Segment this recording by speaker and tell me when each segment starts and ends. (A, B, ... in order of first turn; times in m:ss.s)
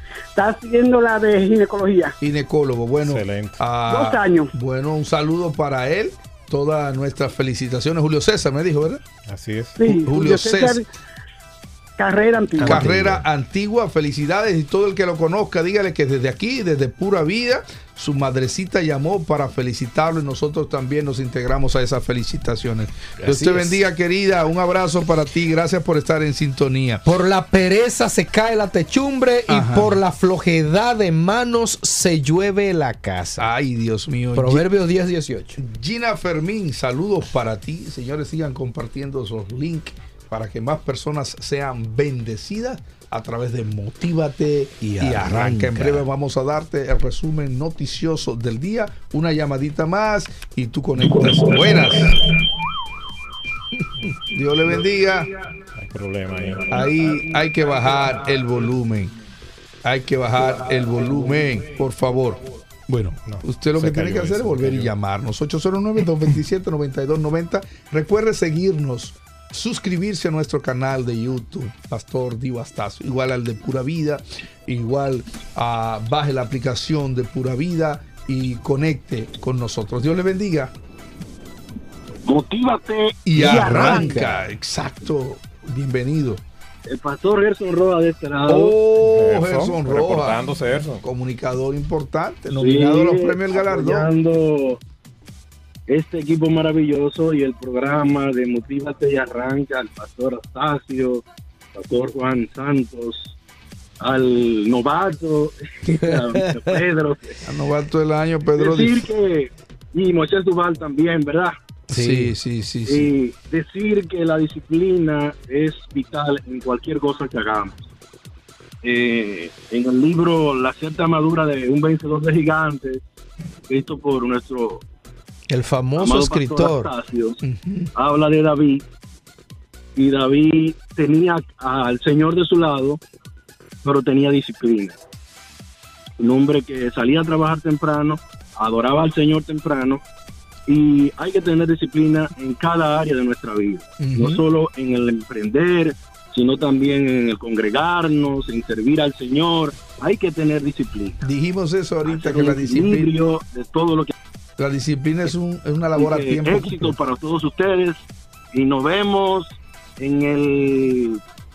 0:00.4-0:02.1 A
0:02.2-0:09.0 B
0:03.0-0:03.6 C
0:03.9-0:04.5 A
0:09.3-0:09.8 C
0:09.8-0:10.9 A
0:09.8-0:10.8 B
0:12.0-0:12.9 A
0:12.6-0:13.2 C
0:12.6-0:27.0 B
0:23.2-0:23.8 D
0:27.0-0:33.5 D
0:29.5-0:30.0 B
0:33.4-0:34.7 B
0:34.4-0:35.6 D
0:35.6-0:52.2 B
0:44.8-0:46.0 D
0:54.2-0:55.3 B
0:55.8-0:56.9 C
0:56.7-0:59.1 B
0:59.8-1:20.7 B
1:03.2-1:04.9 C
1:22.3-1:23.9 E
1:23.2-1:26.4 B
1:23.4-1:24.3 C
1:23.4-1:24.1 A
1:23.4-1:24.3 D
1:26.9-1:28.8 E
1:28.5-1:30.5 B
1:29.0-1:31.0 C
1:31.0-1:34.1 B
1:32.5-1:34.8 E
1:35.9-1:41.2 E
1:41.8-1:43.3 E
1:44.0-1:47.4 E
1:47.4-1:49.1 B
1:48.6-1:51.6 E
1:51.9-1:52.3 D
1:51.9-1:53.1 B
1:52.9-1:57.9 E
1:58.8-2:03.0 E
2:03.7-2:04.8 E
2:05.5-2:06.9 D
2:06.0-2:07.4 E
2:07.4-2:07.9 B
2:08.0-2:08.8 E
2:10.0-2:13.0 E
2:13.8-2:15.0 E
2:16.2-2:20.0 E
2:20.7-2:31.2 E
2:24.0-2:24.4 B
2:31.2-2:33.1 B
2:32.0-2:34.1 E
2:34.6-2:37.0 B
2:35.9-2:38.0 E
2:38.5-2:41.2 E